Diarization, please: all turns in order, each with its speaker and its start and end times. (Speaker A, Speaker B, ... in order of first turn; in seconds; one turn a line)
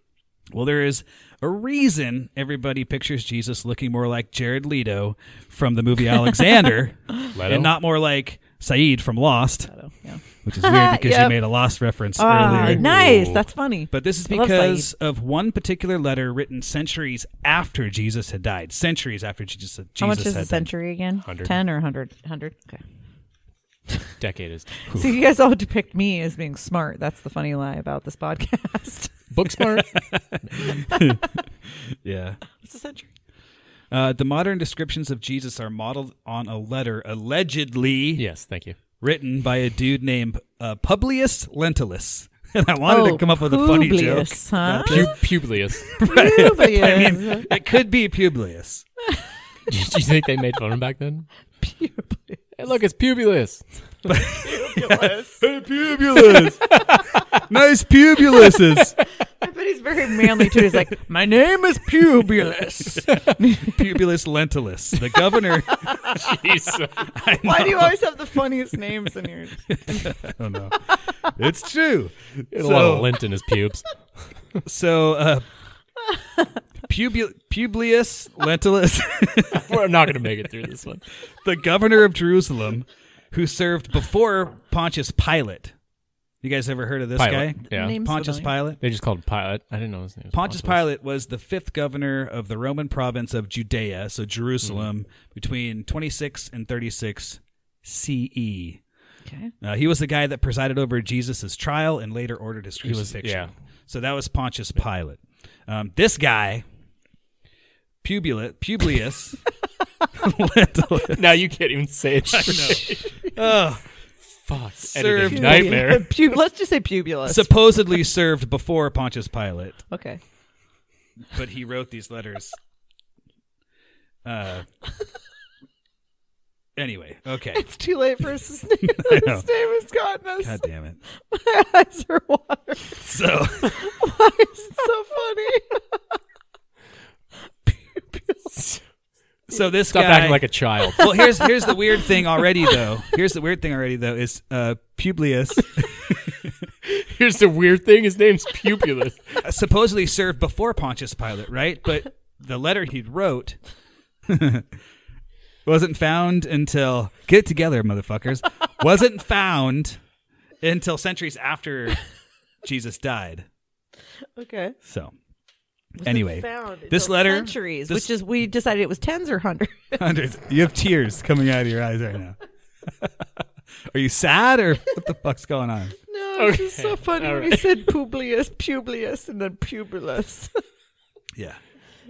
Speaker A: 0.5-9.7
Speaker B: 7.3-7.8
Speaker C: 9.7-11.4
Speaker A: 10.4-13.3
Speaker C: 12.2-14.9
Speaker B: 12.4-13.4
Speaker A: 13.9-20.7
Speaker C: 20.0-22.8
Speaker B: 21.2-21.6
Speaker B: 24.2-24.8
Speaker C: 24.9-29.1
Speaker B: 29.3-30.0
Speaker A: 30.1-31.2
Speaker C: 30.6-31.2
Speaker A: 31.9-32.4
Speaker C: 32.6-33.1
Speaker A: 33.9-38.2
Speaker B: 38.2-38.8
Speaker A: 39.0-48.9
Speaker C: 42.9-45.1
Speaker B: 44.8-45.9
Speaker C: 46.0-47.5
Speaker B: 49.7-51.3
Speaker C: 51.6-52.4
Speaker B: 52.6-53.7
Speaker A: 54.1-59.0
Speaker C: 54.4-55.4
Speaker C: 59.4-62.4
Speaker A: 60.4-60.8
Speaker A: 61.8-66.2
Speaker C: 63.4-63.8
Speaker C: 65.8-66.1
Speaker B: 66.0-67.1
Speaker A: 67.1-68.0
Speaker C: 67.4-70.3
Speaker A: 69.7-73.2
Speaker B: 72.5-73.9
Speaker A: 74.6-75.5
Speaker A: 76.9-79.8
Speaker B: 79.5-81.0
Speaker A: 81.4-85.7
Speaker A: 86.4-88.8
Speaker B: 87.2-88.0
Speaker C: 87.7-88.5
Speaker B: 88.8-90.8
Speaker A: 90.3-98.8
Speaker B: 94.6-94.9
Speaker C: 99.3-99.5
Speaker A: 99.6-106.6
Speaker B: 102.8-103.5
Speaker A: 108.0-109.4
Speaker A: 110.1-111.4
Speaker B: 111.0-113.3
Speaker A: 112.3-113.8
Speaker B: 114.5-116.2
Speaker A: 114.8-115.9
Speaker C: 115.3-117.5
Speaker A: 117.3-119.8
Speaker C: 119.9-120.2
Speaker A: 121.3-122.6
Speaker A: 124.2-124.7
Speaker A: 126.8-127.6
Speaker C: 127.5-130.6
Speaker A: 128.9-129.5
Speaker A: 130.4-131.0
Speaker C: 131.1-133.0
Speaker A: 133.0-133.9
Speaker C: 133.7-136.0
Speaker C: 137.7-138.8
Speaker A: 139.5-146.4
Speaker B: 139.9-141.3
Speaker B: 146.8-149.4
Speaker A: 149.4-153.6
Speaker A: 154.3-154.7
Speaker A: 155.7-160.0
Speaker A: 160.6-162.0
Speaker A: 162.6-163.5
Speaker C: 164.4-164.8
Speaker A: 164.8-165.1
Speaker A: 166.0-168.1
Speaker C: 166.0-170.1
Speaker A: 170.0-172.4
Speaker A: 173.0-175.9
Speaker C: 176.1-180.5
Speaker B: 176.4-177.9